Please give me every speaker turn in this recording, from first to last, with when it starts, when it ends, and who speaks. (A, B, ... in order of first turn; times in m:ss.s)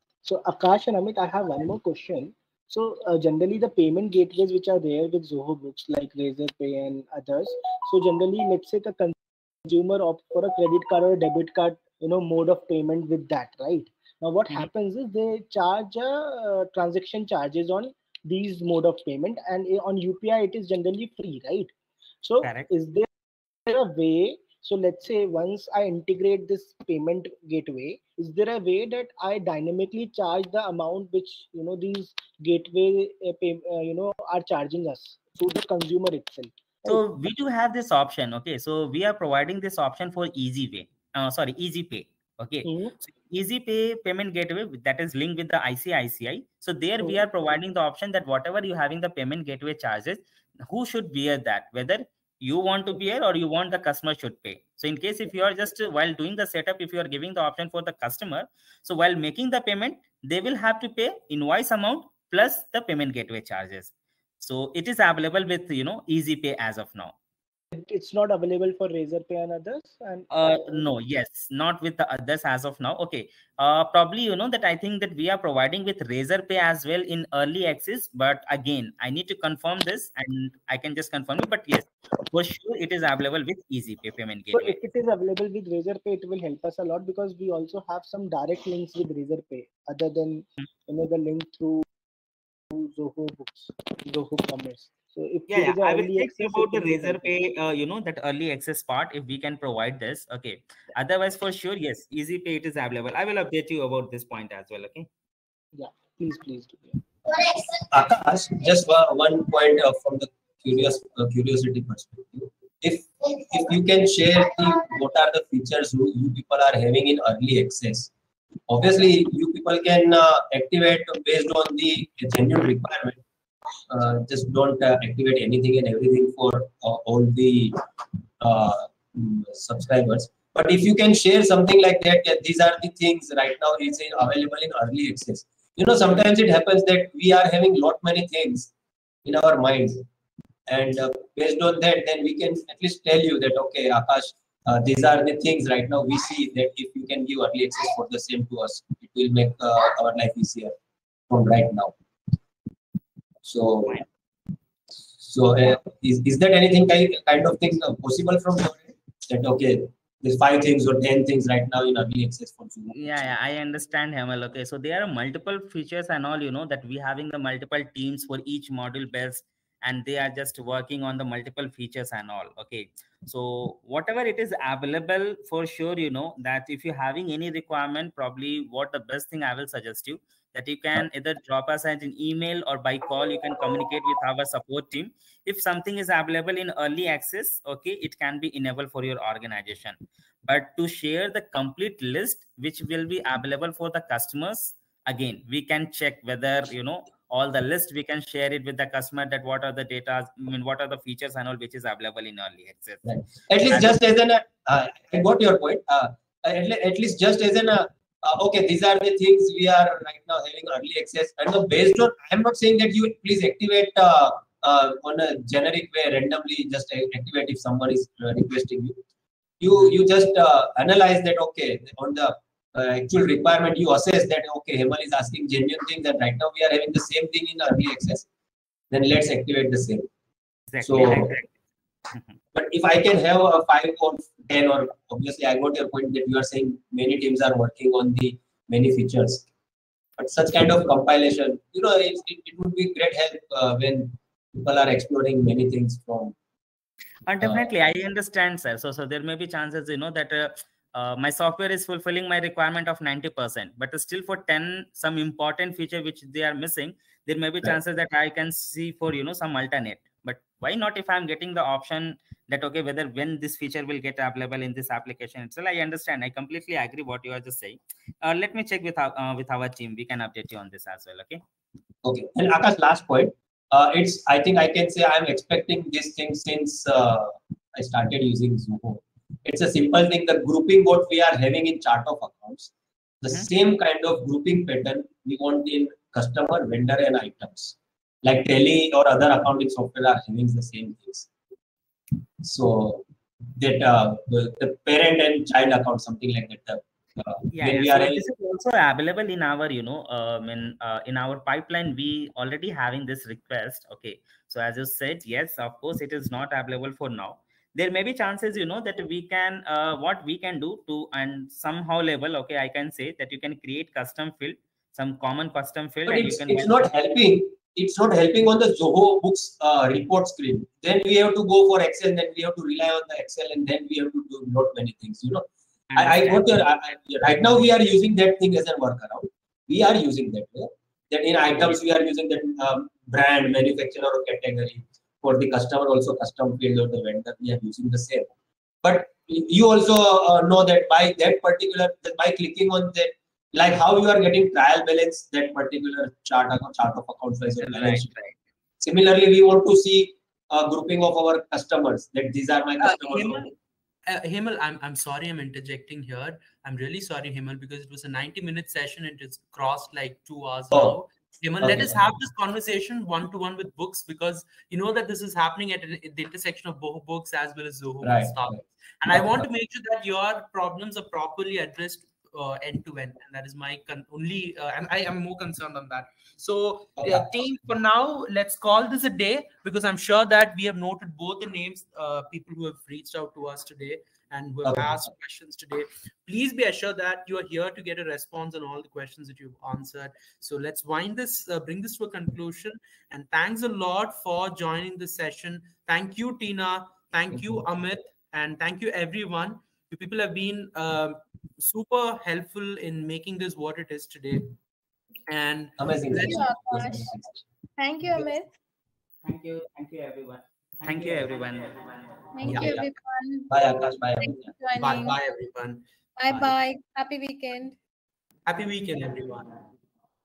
0:00.2-0:21.7 A
0:22.2-0:23.1 A
0:22.4-0:22.7 B
0:23.7-0:37.0 A
0:36.9-1:07.2 B
0:42.7-0:42.9 A
1:07.7-1:10.8 A
1:10.3-1:24.8 B
1:24.5-1:31.9 A
1:32.7-1:37.4 A
1:35.5-1:45.1 B
1:45.8-1:47.0 A
1:47.3-1:58.1 C
1:58.7-2:03.2 C
2:03.9-2:07.8 C
2:08.4-2:18.7 C
2:19.2-2:20.1 C
2:20.7-2:30.8 C
2:31.3-2:32.0 C
2:33.4-2:34.0 C
2:35.2-2:43.1 C
2:42.9-3:23.1 B
3:23.0-3:39.0 C
3:23.7-3:24.0 B
3:39.6-3:48.3 C
3:48.9-3:50.1 C
3:50.7-3:51.5 B
3:50.8-3:51.4 C
3:52.5-3:59.4 C
4:00.2-4:06.4 C
4:07.3-4:31.4 B
4:07.4-4:07.7 C
4:32.0-4:51.3 C
4:52.4-4:58.2 C
4:57.6-5:16.9 B
5:16.1-5:38.3 C
5:26.0-5:26.4 B
5:38.8-5:48.1 C
5:47.6-5:48.3 B
5:48.8-5:53.4 C
5:52.8-5:53.5 D
5:54.1-6:44.5 D
6:00.7-6:01.0 C
6:01.6-6:02.0 C
6:08.0-6:09.4 C
6:17.0-6:17.3 C
6:24.6-6:25.0 C
6:45.3-6:47.2 D
6:45.8-6:47.2 C
6:46.2-6:47.1 E
6:47.8-6:48.5 E
6:49.2-6:51.9 B
6:52.4-6:53.5 E
6:52.4-6:52.9 D
6:52.5-6:52.8 B
6:53.5-6:54.5 C
6:54.2-6:55.2 E
6:54.8-6:56.5 D
6:56.2-6:57.8 E
6:58.5-6:59.5 D